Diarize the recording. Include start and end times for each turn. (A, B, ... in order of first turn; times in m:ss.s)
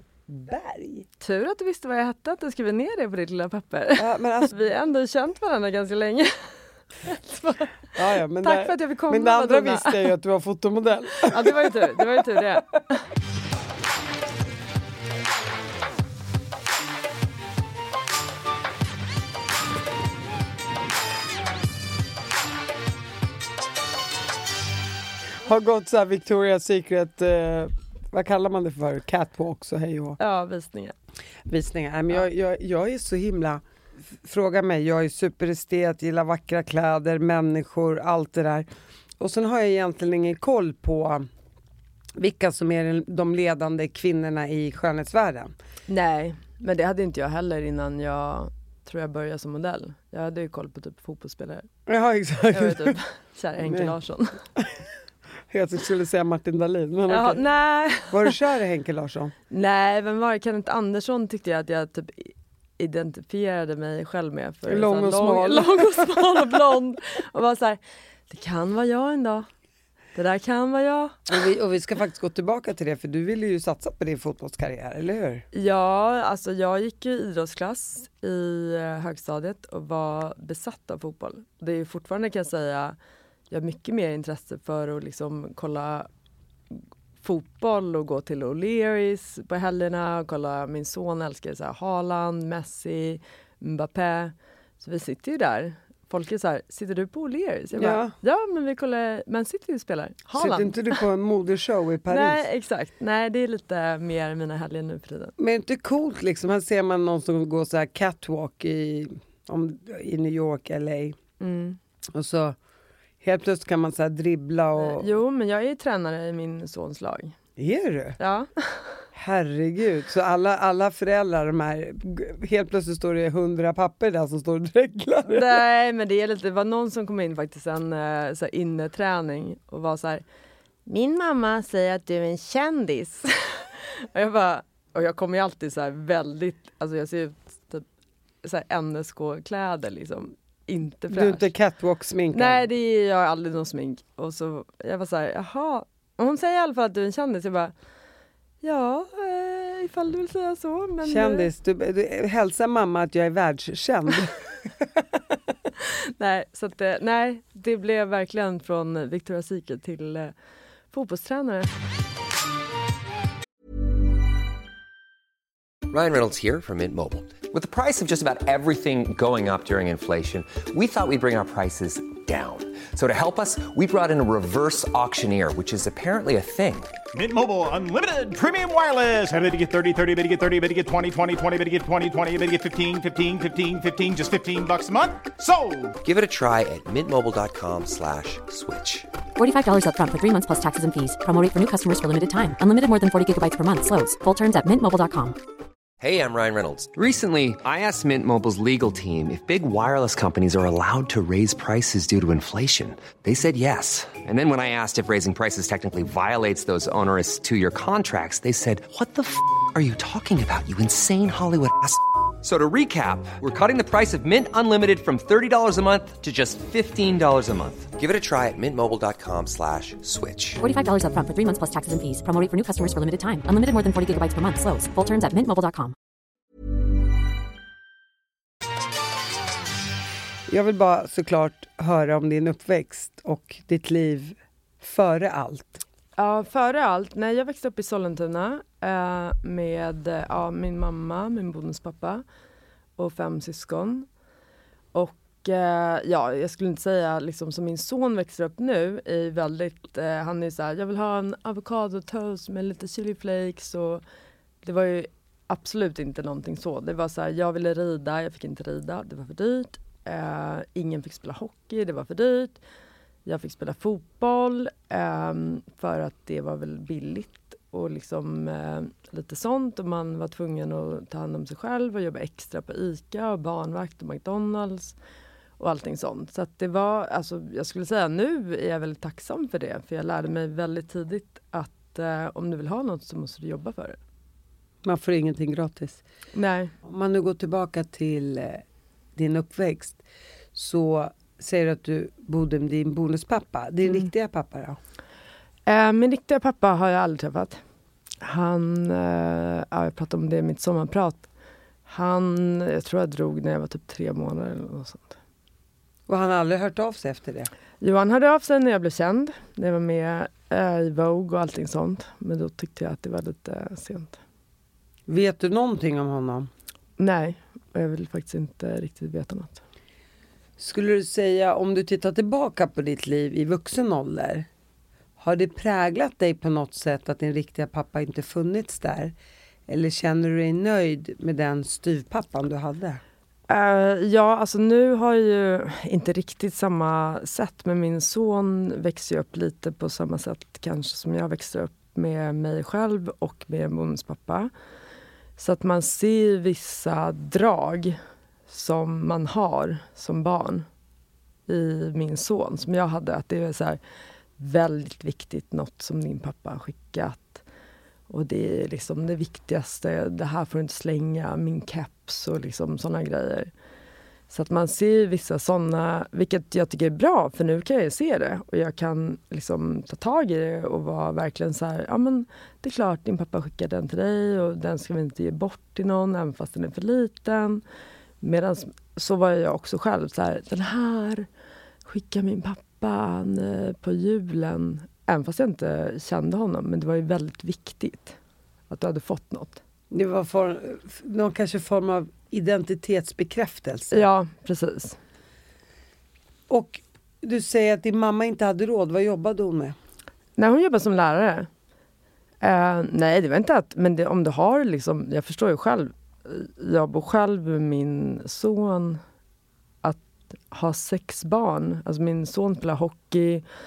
0:00.3-0:01.1 A
0:01.2-0:10.0 B
0:04.0-0:04.5 A
0:07.9-0:12.4 A
0:11.2-0:13.0 B
0:25.4-0:30.2 A
0:30.2-0:30.9 B
0:31.4-0:38.7 A
0:39.2-0:41.3 A
0:42.2-0:45.5 A
0:45.9-0:51.7 B
0:51.9-0:53.0 A
0:52.5-0:54.4 B
0:53.6-0:53.9 A
0:54.6-0:54.9 A
0:55.5-0:57.4 A
0:57.1-0:58.3 B
0:58.1-0:59.3 A
0:59.5-1:09.5 B
1:04.7-1:06.6 A
1:10.1-1:11.3 B
1:11.3-1:15.4 A
1:15.5-1:23.0 B
1:23.5-1:26.1 B
1:26.7-1:41.0 B
1:37.8-1:38.1 A
1:40.3-1:42.4 A
1:42.1-1:45.3 B
1:45.4-1:51.2 A
1:51.4-1:51.8 B
1:52.1-1:52.6 A
1:53.2-1:55.1 A
1:54.8-1:57.3 B
1:57.6-1:58.2 A
1:58.2-1:59.0 B
1:59.1-2:05.6 A
2:05.3-2:10.2 B
2:10.8-2:17.8 B
2:18.4-2:21.5 B
2:21.1-2:22.6 A
2:22.3-2:27.7 B
2:28.6-2:31.5 B
2:31.0-2:34.4 A
2:35.8-2:40.3 B
2:40.9-2:41.7 B
2:45.9-2:56.9 C
2:57.1-3:06.0 D
3:06.0-3:09.1 C
3:09.4-3:15.4 E
3:16.0-3:40.6 C
3:40.6-3:45.9 E
3:50.5-3:55.8 A
3:56.2-4:02.2 B
4:03.0-4:04.1 B
4:04.9-4:14.0 B
4:14.6-4:22.6 B
4:23.2-4:34.9 B
4:35.6-4:44.0 B
4:44.8-4:46.0 A
4:46.3-4:46.7 B
4:46.8-4:48.6 A
4:49.2-4:50.0 A
4:50.5-4:54.8 A
4:55.7-4:57.6 B
4:58.2-5:01.3 B
5:01.9-5:05.1 B
5:06.1-5:07.5 A
5:07.8-5:14.2 B
5:15.1-5:16.5 A
5:17.0-5:19.6 B
5:20.6-5:24.5 A
5:25.2-5:29.1 A
5:29.7-5:33.0 A
5:33.5-5:44.5 B
5:45.4-5:50.7 B
5:51.5-5:53.8 B
5:54.4-5:57.4 B
5:58.1-6:03.5 B
6:04.3-6:17.6 B
6:18.2-6:21.3 B
6:21.8-6:28.2 B
6:28.7-6:29.6 B
6:29.9-6:34.0 A
6:33.9-6:35.0 B
6:36.5-6:39.7 A
6:40.4-6:41.5 B
6:42.4-6:49.0 B
6:49.8-6:53.4 B